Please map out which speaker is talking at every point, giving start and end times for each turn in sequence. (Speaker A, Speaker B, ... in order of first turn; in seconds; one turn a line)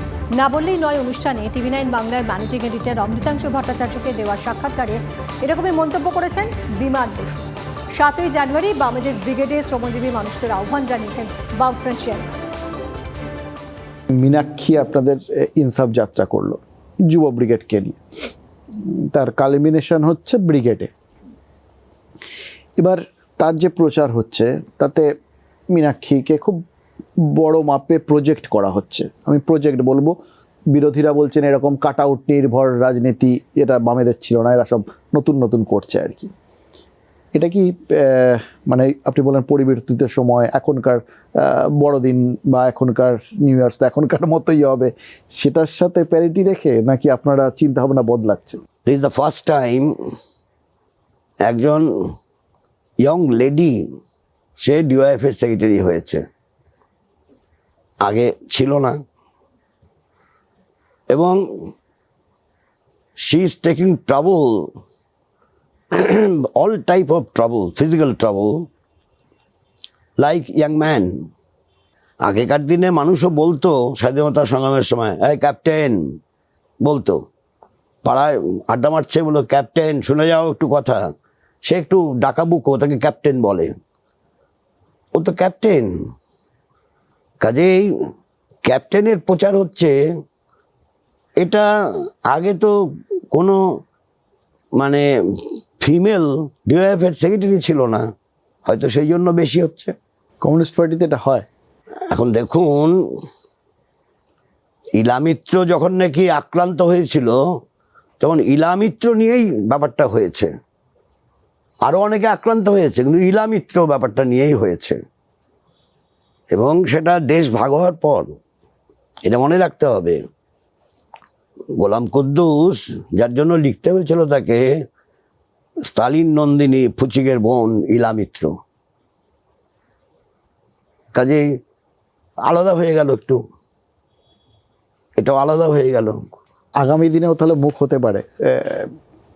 Speaker A: 0.3-12.3
Speaker B: 14.2-16.6
Speaker B: 17.1-18.0
Speaker B: 19.1-20.9
Speaker B: 22.8-25.1
Speaker B: 25.7-26.6
Speaker B: 27.4-30.1
Speaker B: 30.7-36.3
Speaker B: 37.3-37.6
Speaker B: 38.5-41.0
Speaker B: 41.8-48.6
Speaker C: 48.9-49.9
Speaker C: 51.4-52.1
Speaker C: 53.0-53.8
Speaker C: 54.6-56.2
Speaker C: 58.0-59.0
Speaker C: 61.1-61.7
Speaker C: 63.2-64.7
Speaker C: 66.0-68.7
Speaker C: 70.2-71.2
Speaker C: 72.2-76.1
Speaker C: 76.8-77.2
Speaker C: 78.0-81.1
Speaker C: 81.6-83.7
Speaker C: 85.1-85.9
Speaker C: 87.4-87.9
Speaker C: 88.6-89.9
Speaker C: 91.4-91.6
Speaker C: 92.3-92.7
Speaker C: 93.3-93.6
Speaker C: 94.8-98.0
Speaker C: 98.7-99.9
Speaker B: 100.4-101.4
Speaker C: 102.1-102.9
Speaker C: 105.0-107.4
Speaker C: 108.2-110.5
Speaker C: 111.8-115.0
Speaker C: 116.5-118.3
Speaker C: 119.2-120.2
Speaker C: 121.8-124.7
Speaker C: 125.9-128.5
Speaker C: 131.1-131.5
Speaker C: 132.4-133.4
Speaker C: 135.2-136.2
Speaker B: 136.8-138.8